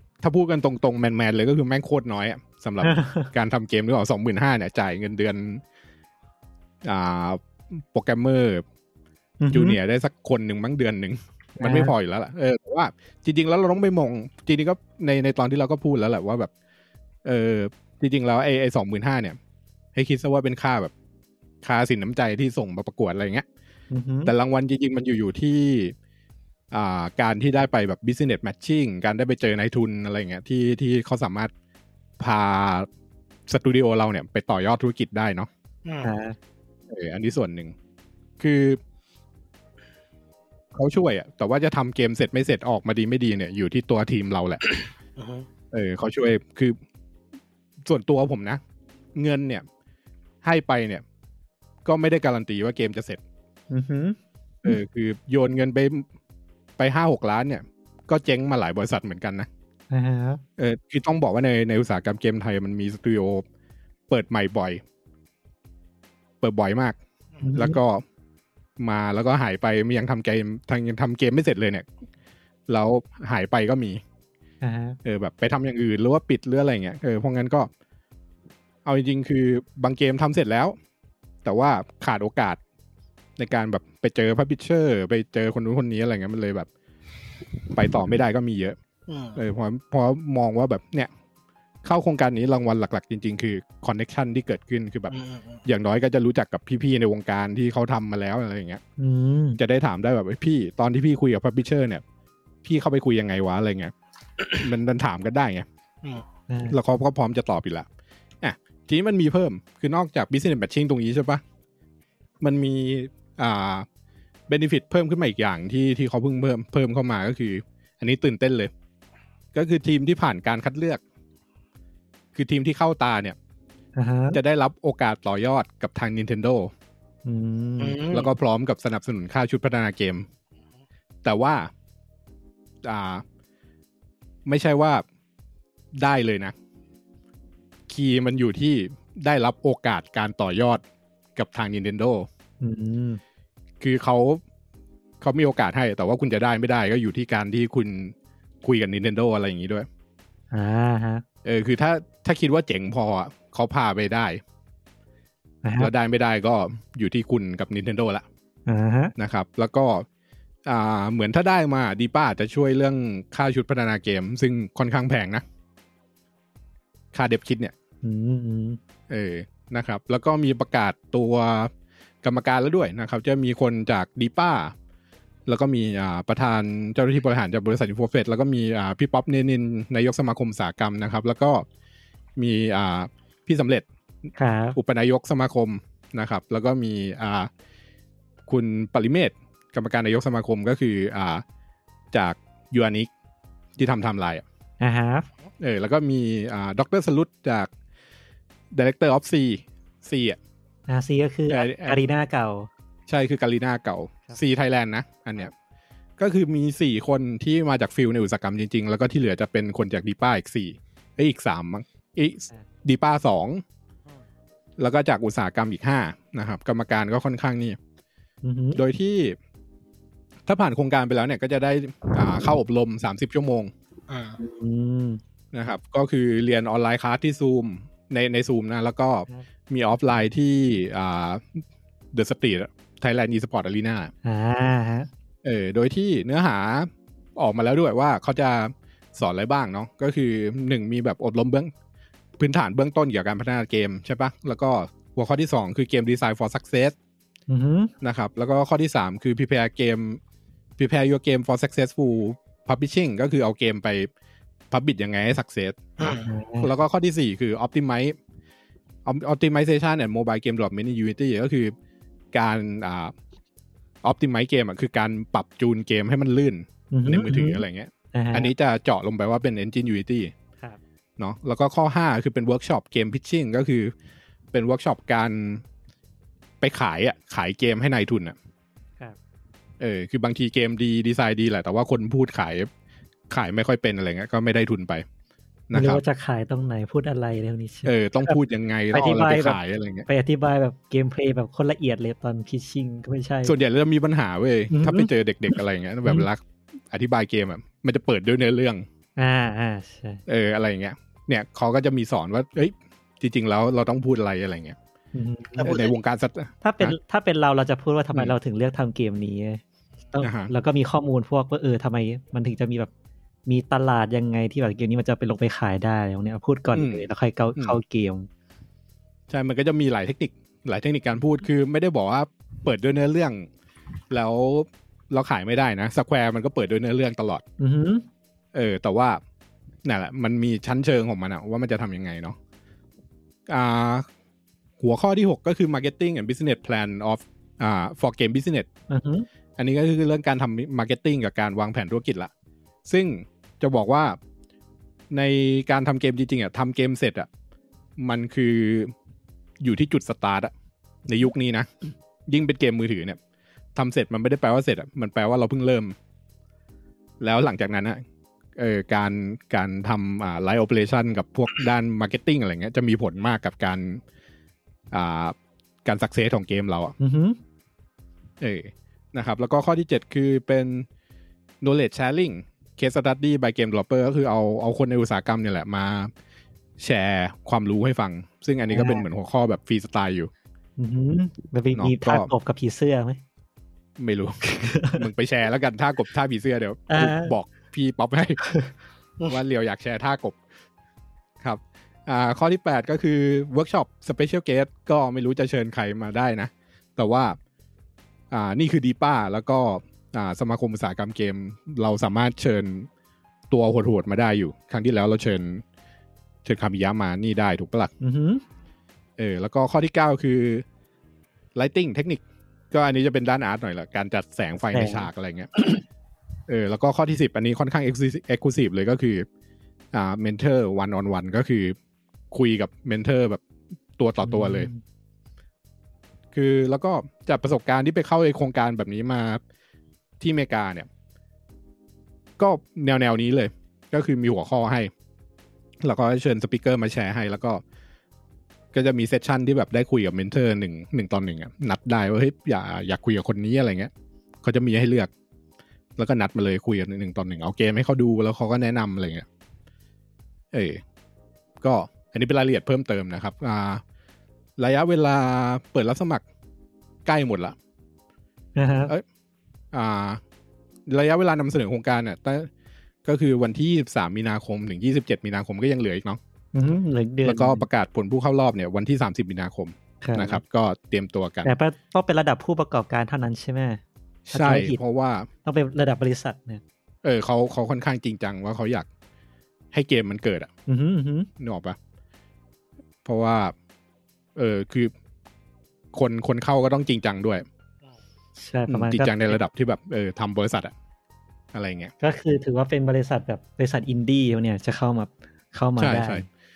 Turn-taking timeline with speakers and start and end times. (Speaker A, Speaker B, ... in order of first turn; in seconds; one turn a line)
Speaker A: 0.2-5.6
Speaker B: 2.8-3.3
Speaker A: 6.8-8.6
Speaker B: 9.4-9.8
Speaker A: 9.5-16.5
Speaker B: 11.6-11.9
Speaker A: 17.2-19.4
Speaker A: 19.9-20.9
Speaker A: 21.6-23.4
Speaker B: 23.9-24.3
Speaker A: 24.2-25.9
Speaker A: 26.7-31.5
Speaker A: 32.2-32.9
Speaker A: 33.5-35.5
Speaker C: 35.8-36.1
Speaker B: 36.0-36.4
Speaker A: 36.9-37.7
Speaker A: 38.4-38.8
Speaker A: 40.7-44.6
Speaker C: 45.2-45.5
Speaker A: 45.7-46.8
Speaker A: 47.8-48.6
Speaker A: 49.1-49.6
Speaker A: 50.4-51.0
Speaker A: 51.8-53.2
Speaker B: 53.7-54.8
Speaker A: 54.6-56.1
Speaker A: 56.8-59.5
Speaker B: 59.9-60.4
Speaker A: 60.6-63.4
Speaker A: 64.1-64.8
Speaker A: 66.4-67.0
Speaker B: 67.4-67.8
Speaker A: 67.5-68.0
Speaker A: 68.8-71.9
Speaker A: 72.7-74.0
Speaker B: 74.6-75.0
Speaker A: 75.0-77.7
Speaker A: 78.8-80.8
Speaker A: 81.4-82.6
Speaker A: 83.4-86.7
Speaker A: 87.7-88.8
Speaker C: 89.1-89.4
Speaker A: 89.3-91.1
Speaker A: 91.8-95.1
Speaker C: 95.1-95.6
Speaker A: 95.6-98.8
Speaker B: 99.0-99.6
Speaker A: 99.6-102.0
Speaker A: 102.6-103.9
Speaker A: 104.6-105.7
Speaker B: 106.5-106.8
Speaker A: 106.7-107.9
Speaker A: 108.4-111.4
Speaker A: 112.4-113.8
Speaker A: 114.5-118.7
Speaker A: 119.5-121.0
Speaker A: 122.3-123.4
Speaker B: 124.0-124.4
Speaker A: 124.3-126.7
Speaker B: 127.2-128.0
Speaker C: 127.8-128.3
Speaker A: 128.1-130.2
Speaker A: 131.2-131.7
Speaker A: 132.8-133.2
Speaker A: 134.4-135.0
Speaker A: 135.9-136.5
Speaker A: 137.9-140.8
Speaker A: 141.3-142.3
Speaker B: 142.6-143.2
Speaker A: 143.8-144.4
Speaker A: 145.2-149.9
Speaker B: 150.5-151.2
Speaker A: 151.4-154.4
Speaker B: 155.6-155.9
Speaker A: 155.8-158.2
Speaker B: 158.7-159.1
Speaker A: 159.2-160.1
Speaker A: 160.6-165.4
Speaker A: 167.1-167.7
Speaker B: 168.0-168.8
Speaker A: 169.1-171.7
Speaker A: 172.2-174.7
Speaker A: 175.5-181.7
Speaker A: 182.4-183.8
Speaker B: 184.4-184.8
Speaker A: 184.8-187.5
Speaker A: 188.5-191.4
Speaker A: 192.1-193.1
Speaker A: 193.8-194.4
Speaker B: 194.8-195.3
Speaker A: 195.6-197.7
Speaker A: 198.7-200.4
Speaker B: 200.9-202.7
Speaker A: 201.5-202.0
Speaker A: 203.1-205.5
Speaker A: 206.2-213.6
Speaker A: 214.8-217.8
Speaker B: 218.4-218.8
Speaker A: 218.8-219.4
Speaker A: 220.4-223.7
Speaker C: 224.1-224.4
Speaker B: 224.4-225.2
Speaker A: 225.5-234.1
Speaker B: 234.2-235.1
Speaker A: 235.4-241.7
Speaker A: 242.4-246.9
Speaker B: 247.5-247.9
Speaker A: 248.0-250.2
Speaker A: 250.8-254.1
Speaker A: 254.7-258.1
Speaker C: 256.0-256.3
Speaker B: 256.1-256.7
Speaker A: 259.0-261.7
Speaker A: 262.3-263.1
Speaker A: 264.0-270.3
Speaker B: 266.9-268.5
Speaker A: 271.2-273.9
Speaker A: 274.5-275.6
Speaker A: 276.6-278.4
Speaker A: 279.8-282.7
Speaker A: 283.3-285.0
Speaker A: 285.7-286.0
Speaker B: 285.7-288.4
Speaker A: 287.8-290.1
Speaker B: 288.9-293.6
Speaker A: 293.4-298.8
Speaker B: 294.7-296.3
Speaker B: 299.2-300.2
Speaker A: 300.3-304.8
Speaker B: 305.1-305.7
Speaker C: 305.6-306.0
Speaker A: 305.6-306.9
Speaker B: 306.6-309.6
Speaker B: 310.1-312.9
Speaker A: 310.2-310.5
Speaker B: 313.5-318.3
Speaker A: 316.7-317.8
Speaker A: 319.3-323.5
Speaker A: 324.1-327.4
Speaker B: 327.6-328.1
Speaker A: 328.5-329.2
Speaker A: 329.8-332.4
Speaker A: 333.5-334.1
Speaker A: 334.8-338.7
Speaker B: 338.9-339.2
Speaker A: 339.6-342.3
Speaker A: 342.9-344.2
Speaker A: 345.1-347.3
Speaker A: 348.0-348.9
Speaker A: 349.6-350.5
Speaker A: 351.1-351.7
Speaker A: 352.3-353.2
Speaker A: 353.7-355.9
Speaker A: 357.2-358.0
Speaker A: 358.6-364.0
Speaker A: 364.9-366.9
Speaker B: 367.0-367.4
Speaker A: 368.4-370.9
Speaker A: 371.6-376.1
Speaker A: 376.8-380.3
Speaker B: 378.7-379.1
Speaker B: 380.8-383.2
Speaker A: 381.7-382.3
Speaker A: 384.0-388.4
Speaker B: 384.5-385.0
Speaker B: 386.9-387.3
Speaker A: 389.3-390.4
Speaker A: 391.4-397.4
Speaker A: 398.3-402.9
Speaker A: 403.5-405.6
Speaker A: 406.4-407.9
Speaker B: 408.0-408.4
Speaker A: 409.2-410.6
Speaker A: 411.6-415.5
Speaker B: 414.7-415.1
Speaker A: 416.5-419.3
Speaker A: 419.9-421.8
Speaker A: 422.3-423.4
Speaker A: 424.0-424.7
Speaker B: 424.2-424.8
Speaker A: 426.3-429.4
Speaker A: 430.2-430.9
Speaker A: 432.4-434.9
Speaker A: 435.8-437.6
Speaker A: 438.7-443.9
Speaker A: 444.4-445.1
Speaker A: 446.0-449.2
Speaker A: 450.5-450.8
Speaker A: 451.6-453.8
Speaker A: 454.6-456.2
Speaker A: 457.0-457.6
Speaker B: 458.6-458.9
Speaker A: 459.7-460.2
Speaker A: 460.9-462.5
Speaker A: 463.0-466.2
Speaker B: 466.5-467.6
Speaker A: 467.2-471.6
Speaker B: 470.0-470.4
Speaker B: 471.4-473.8
Speaker A: 474.3-475.3
Speaker B: 474.3-474.8
Speaker B: 475.4-476.6
Speaker A: 477.0-478.9
Speaker A: 479.7-480.5
Speaker B: 480.7-481.3
Speaker A: 481.4-481.8
Speaker A: 483.0-483.5
Speaker A: 484.4-484.9
Speaker A: 485.9-487.4
Speaker B: 488.4-489.4
Speaker A: 488.7-490.7
Speaker A: 491.5-491.9
Speaker B: 492.0-496.2
Speaker A: 495.8-496.2